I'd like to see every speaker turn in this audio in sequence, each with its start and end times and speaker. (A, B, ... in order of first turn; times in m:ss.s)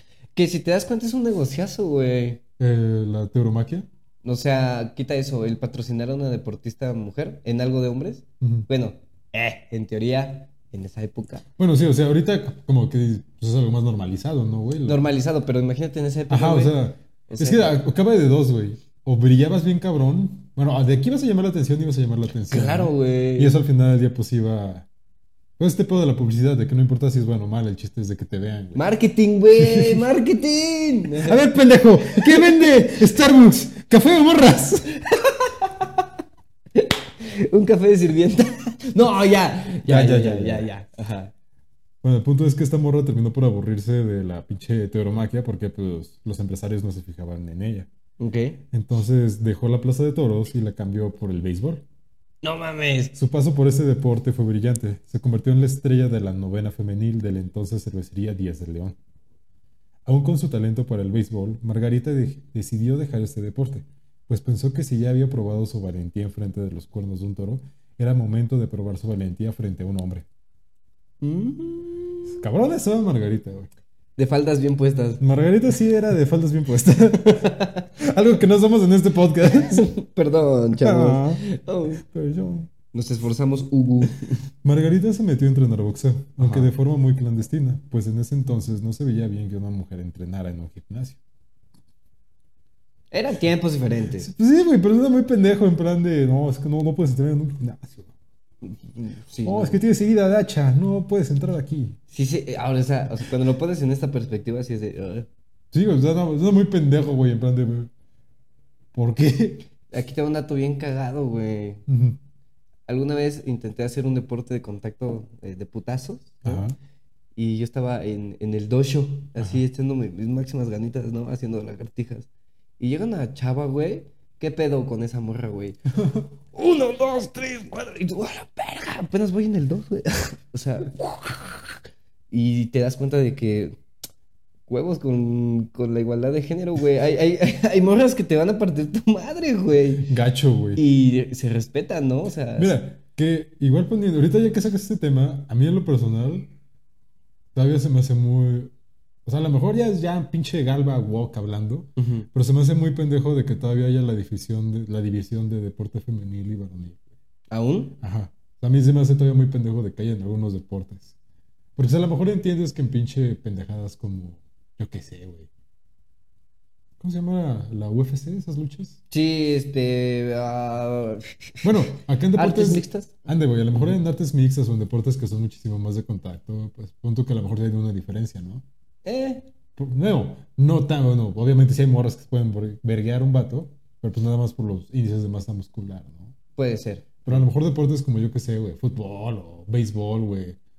0:00.4-0:02.4 A
0:02.6-0:03.9 B
0:04.2-0:11.4 A
0:08.4-0:08.7 B
0:11.6-0:15.0 B
0:14.9-0:17.8 A
0:16.3-0:24.9 B
0:22.5-0:23.5 A
0:25.6-0:28.8 B
0:28.8-0:31.4 A
0:29.6-0:30.0 B
0:31.2-0:35.0 B
0:32.1-0:32.6 A
0:35.4-0:35.9 A
0:36.8-0:41.3 A
0:39.9-0:40.6 B
0:42.0-0:47.9 B
0:48.2-0:48.6 A
0:48.7-0:51.8 B
0:52.4-0:53.1 A
0:53.1-0:59.0 B
1:00.0-1:10.2 B
1:11.2-1:12.4 A
1:12.3-1:13.7 B
1:14.2-1:15.2 A
1:15.2-1:19.9 B
1:17.2-1:17.9 A
1:19.4-1:22.0 A
1:20.8-1:21.4 B
1:22.0-1:22.7 B
1:22.9-1:24.4 A
1:24.6-1:31.2 B
1:26.4-1:26.7 A
1:33.1-1:34.3 A
1:34.2-1:38.1 B
1:38.6-1:39.8 A
1:39.4-1:42.0 B
1:42.1-1:45.3 A
1:45.7-1:47.9 B
1:48.9-1:49.7 B
1:49.9-1:51.8 A
1:51.9-1:52.2 B
1:52.9-1:56.6 A
1:56.4-1:56.8 B
1:57.4-2:02.3 A
2:02.8-2:05.8 A
2:05.9-2:06.2 B
2:06.5-2:11.8 A
2:12.3-2:13.8 A
2:14.7-2:20.1 A
2:20.0-2:20.8 B
2:20.8-2:22.8 A
2:22.6-2:26.5 B
2:27.5-2:28.7 B
2:29.2-2:37.0 B
2:32.0-2:32.3 A
2:37.5-2:38.0 A
2:38.0-2:41.1 B
2:41.8-2:45.5 B
2:47.0-2:49.0 B
2:49.1-2:51.7 A
2:51.6-2:58.6 B
2:52.4-2:53.2 A
2:59.0-2:59.5 A
2:59.8-3:06.3 B
3:06.6-3:07.4 A
3:07.2-3:10.6 B